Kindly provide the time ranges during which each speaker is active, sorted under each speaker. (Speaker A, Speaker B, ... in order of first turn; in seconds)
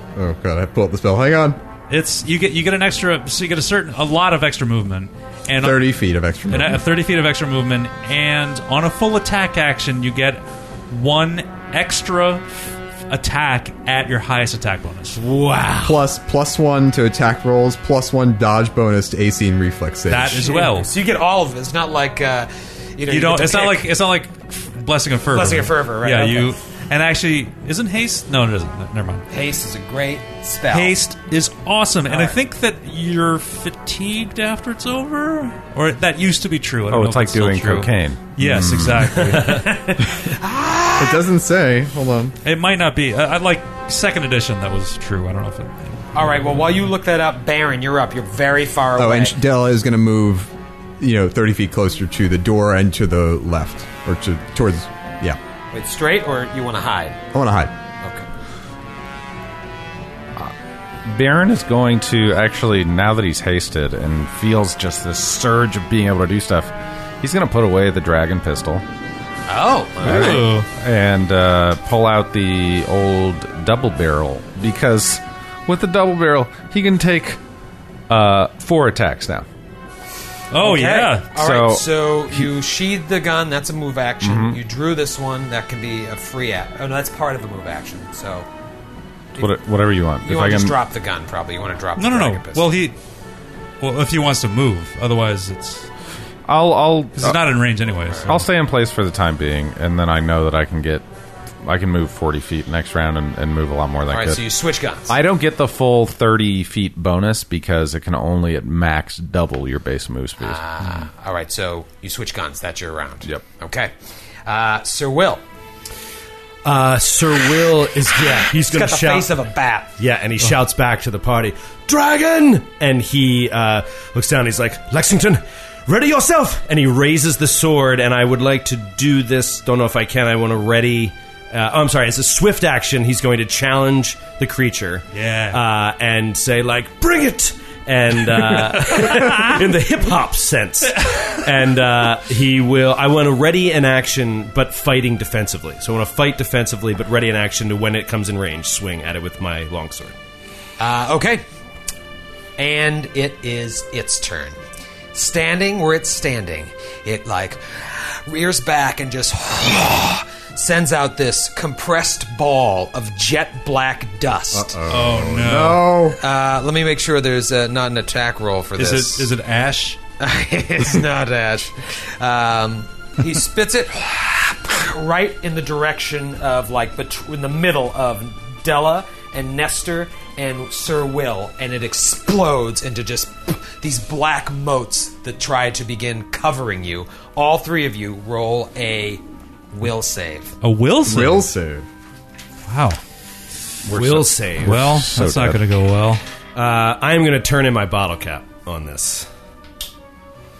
Speaker A: 0.1-1.6, 5.6-6.8, 15.8-20.5, 41.0-42.4, 49.0-55.4, 57.3-57.7, 164.5-166.2, 191.0-191.9
Speaker B: 1.9-5.9, 6.5-15.2, 20.1-20.9, 23.1-29.3, 30.7-39.9, 42.4-46.1, 70.0-70.7, 80.5-81.3, 92.0-93.0, 93.8-95.9, 97.2-98.5, 135.1-135.6, 138.7-139.6, 164.9-165.9, 168.8-170.0, 190.6-191.5, 192.7-193.0, 194.6-196.2
Speaker C: 15.1-16.0, 116.6-119.3, 120.0-150.1, 193.9-194.8, 196.5-199.3
Speaker D: 20.5-23.9, 25.3-26.5, 29.3-30.9, 32.1-32.4, 39.4-41.2, 46.1-49.4, 55.7-57.2, 58.0-58.2, 69.5-70.5, 80.5-88.5, 89.3-89.6, 90.2-92.7, 104.1-105.1, 110.4-113.9, 114.4-115.4, 118.3-119.9, 150.8-151.4, 152.6-154.6, 155.1-164.8, 166.1-169.3, 170.2-190.6
Speaker E: 36.9-39.4, 61.0-68.8, 70.0-77.4, 78.1-79.5, 81.3-81.9, 84.2-84.6, 89.4-90.8, 96.5-97.4, 98.2-101.0, 101.6-104.4, 105.1-110.6, 193.8-195.6